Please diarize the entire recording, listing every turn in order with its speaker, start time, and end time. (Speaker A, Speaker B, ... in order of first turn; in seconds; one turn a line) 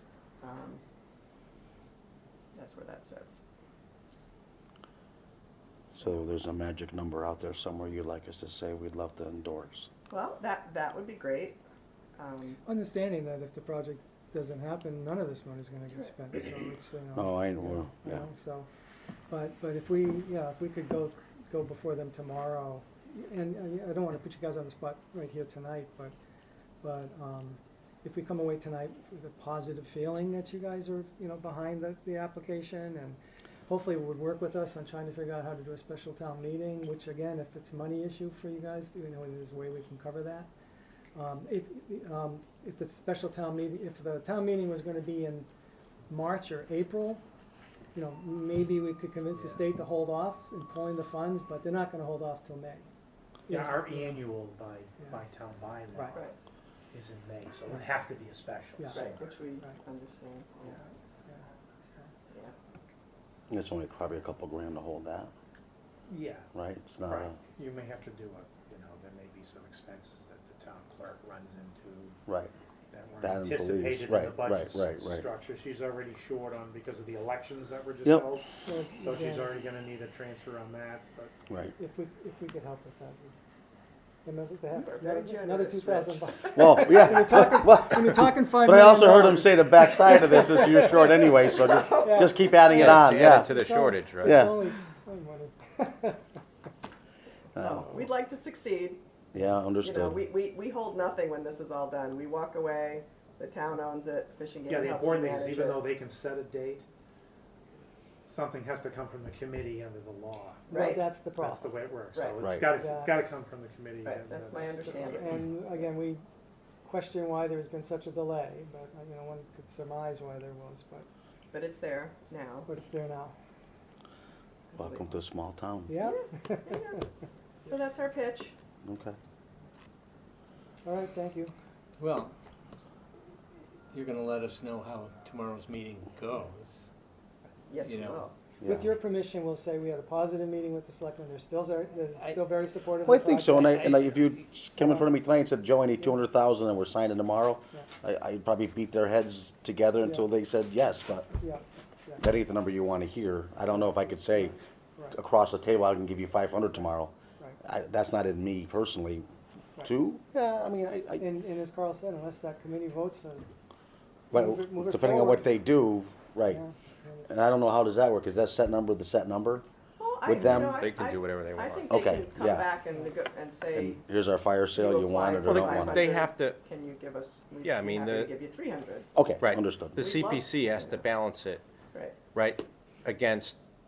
Speaker A: 0.4-0.8
Speaker A: 2.5-3.4
Speaker B: 6.0-9.9
Speaker A: 10.1-11.6
Speaker A: 12.2-12.6
Speaker C: 12.7-18.7
Speaker B: 17.2-18.2
Speaker C: 19.3-26.1
Speaker C: 26.8-40.5
Speaker C: 41.1-45.5
Speaker C: 46.1-47.2
Speaker C: 47.9-52.9
Speaker D: 49.3-49.7
Speaker D: 53.5-56.2
Speaker C: 53.5-54.2
Speaker C: 55.9-56.2
Speaker D: 56.9-59.2
Speaker C: 58.8-59.8
Speaker A: 58.9-60.8
Speaker C: 61.3-62.1
Speaker B: 63.5-65.3
Speaker D: 66.1-66.5
Speaker B: 66.5-67.4
Speaker D: 67.0-72.2
Speaker B: 72.3-72.5
Speaker D: 72.9-81.3
Speaker B: 73.2-75.3
Speaker C: 78.7-79.6
Speaker C: 81.8-83.3
Speaker C: 84.2-91.4
Speaker A: 84.7-86.9
Speaker B: 86.6-93.5
Speaker A: 91.5-92.3
Speaker C: 92.0-96.2
Speaker E: 92.7-94.5
Speaker B: 94.2-94.6
Speaker B: 97.6-97.9
Speaker A: 97.6-99.0
Speaker B: 99.3-100.2
Speaker A: 99.8-105.9
Speaker D: 104.7-106.9
Speaker D: 108.2-115.4
Speaker A: 110.7-111.1
Speaker C: 110.7-111.8
Speaker A: 112.1-112.4
Speaker B: 112.4-112.8
Speaker C: 112.8-113.4
Speaker A: 114.0-115.5
Speaker C: 114.5-116.2
Speaker C: 116.8-121.1
Speaker A: 121.5-122.7
Speaker C: 122.7-123.3
Speaker A: 124.7-125.1
Speaker B: 124.8-125.9
Speaker C: 125.9-127.0
Speaker A: 126.0-127.1
Speaker A: 127.6-128.5
Speaker B: 128.8-129.2
Speaker C: 130.8-131.5
Speaker F: 132.0-132.3
Speaker F: 133.9-136.8
Speaker A: 137.7-138.3
Speaker F: 137.8-138.2
Speaker B: 138.6-138.9
Speaker C: 138.6-143.8
Speaker F: 142.2-142.6
Speaker B: 143.0-151.3
Speaker F: 143.1-144.5
Speaker C: 144.8-145.1
Speaker C: 150.0-150.3
Speaker C: 151.4-152.2
Speaker B: 152.2-154.6
Speaker C: 153.8-155.2
Speaker B: 155.1-159.3
Speaker B: 159.8-161.3
Speaker C: 161.2-163.5
Speaker C: 164.3-165.5
Speaker B: 164.3-166.6
Speaker C: 166.5-167.4
Speaker B: 167.3-169.7
Speaker A: 170.0-174.0
Speaker B: 170.3-170.8
Speaker E: 170.4-171.9
Speaker B: 171.9-172.7
Speaker B: 173.8-176.1
Speaker A: 174.7-179.1
Speaker E: 175.4-176.6
Speaker E: 177.6-178.3
Speaker B: 179.2-180.0
Speaker E: 179.4-181.6
Speaker A: 179.9-181.0
Speaker E: 182.3-183.6